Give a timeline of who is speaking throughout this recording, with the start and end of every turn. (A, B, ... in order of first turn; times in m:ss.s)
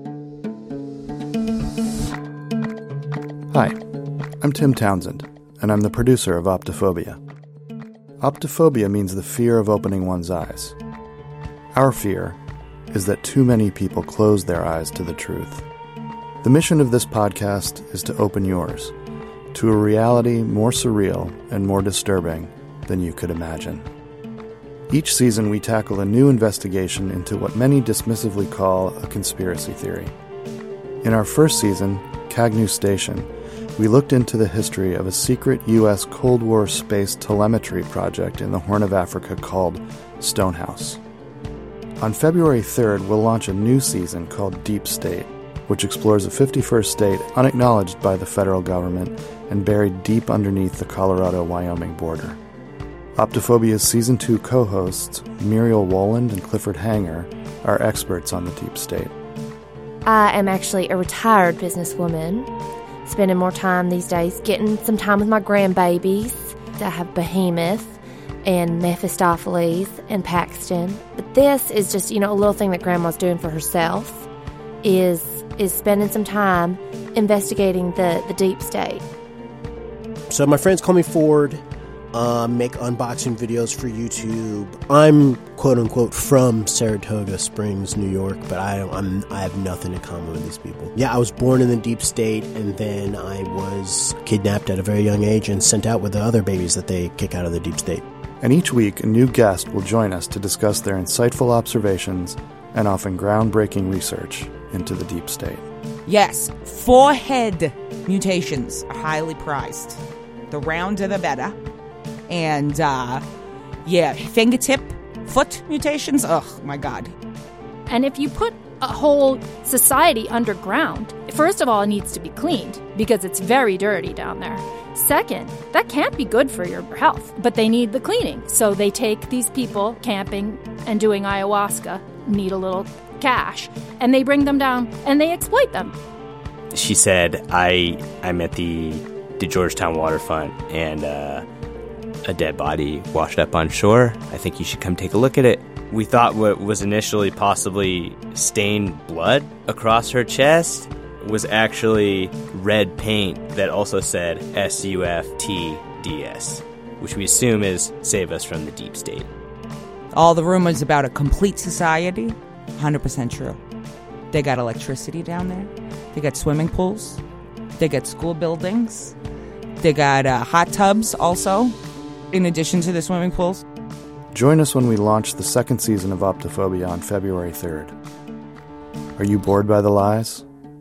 0:03.5-0:03.8 A
0:04.4-0:07.2 A
0:08.2-0:10.8 A
0:11.7-0:12.4 A
0:12.9-0:15.6 A
0:16.4-0:18.9 A
0:19.5-0:23.9 A
0:24.9-0:30.1 A
0:31.0-0:41.0 A
0:42.0-0:52.4 A
0:53.2-0:59.1 A
1:00.0-1:02.5 B
1:03.0-1:14.2 B
1:14.8-1:19.0 B
1:20.3-1:21.6 C
1:22.1-1:38.0 C
1:38.4-1:45.6 A
1:46.0-1:51.5 D
1:52.3-1:53.2 D
1:53.8-1:57.1 D
1:57.9-2:15.9 E
2:16.7-2:21.4 F
2:22.2-2:39.3 F
2:40.1-2:43.6 D
2:44.3-2:47.2 D
2:47.7-2:49.1 D
2:49.8-2:51.7 D
2:52.3-2:53.6 D
2:54.3-2:57.9 A
2:59.2-3:00.4 A